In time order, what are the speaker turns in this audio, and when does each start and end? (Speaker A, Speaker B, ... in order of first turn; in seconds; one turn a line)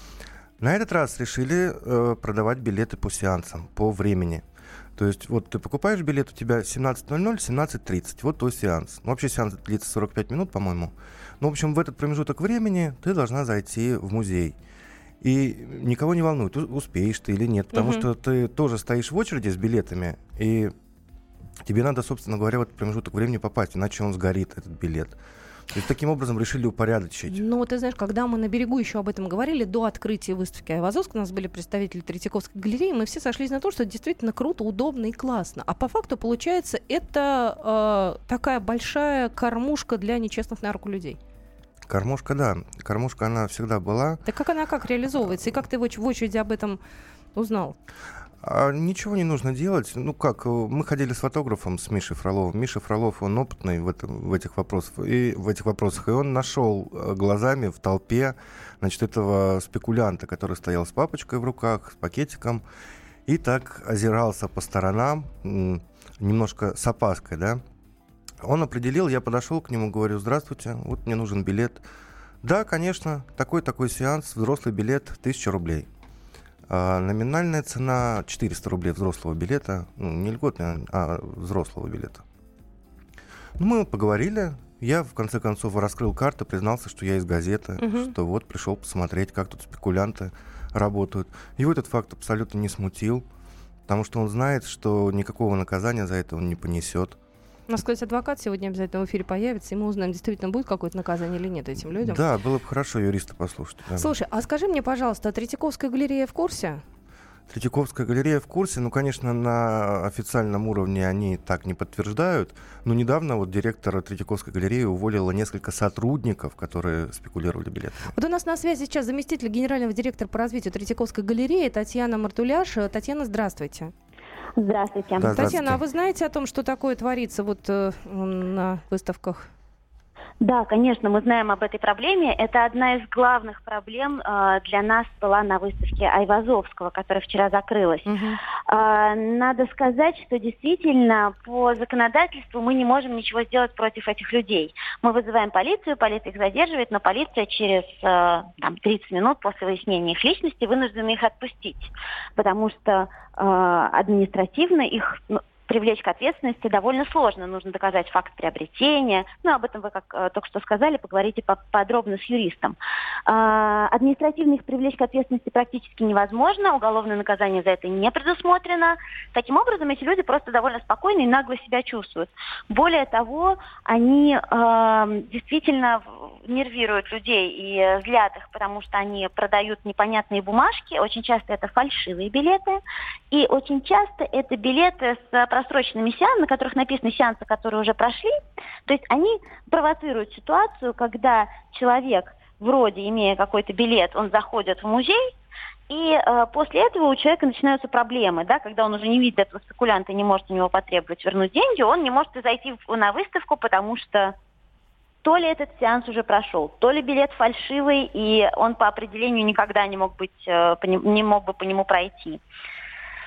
Speaker A: 0.6-4.4
Speaker A: 5.0-14.6
Speaker A: 15.2-20.7
Speaker B: 17.7-18.1
Speaker A: 21.6-25.2
Speaker A: 25.7-27.4
Speaker B: 27.3-41.2
Speaker A: 41.9-44.2
Speaker B: 44.2-46.8
Speaker B: 47.3-47.8
Speaker A: 48.4-62.6
Speaker A: 63.3-67.6
Speaker A: 68.4-71.8
Speaker A: 72.4-75.9
Speaker A: 76.7-82.2
Speaker A: 83.6-93.2
Speaker B: 87.8-88.1
Speaker A: 93.9-97.2
Speaker B: 97.7-102.2
Speaker A: 102.0-104.1
Speaker B: 104.0-106.8
Speaker A: 107.5-118.1
Speaker B: 118.1-123.9
Speaker C: 124.6-125.4
Speaker A: 125.2-125.8
Speaker B: 125.3-129.5
Speaker C: 130.4-138.1
Speaker B: 138.1-138.4
Speaker C: 138.7-162.8
Speaker C: 163.3-182.8
Speaker C: 183.3-188.3
Speaker C: 188.8-195.2
Speaker C: 195.9-204.3
Speaker C: 205.2-212.4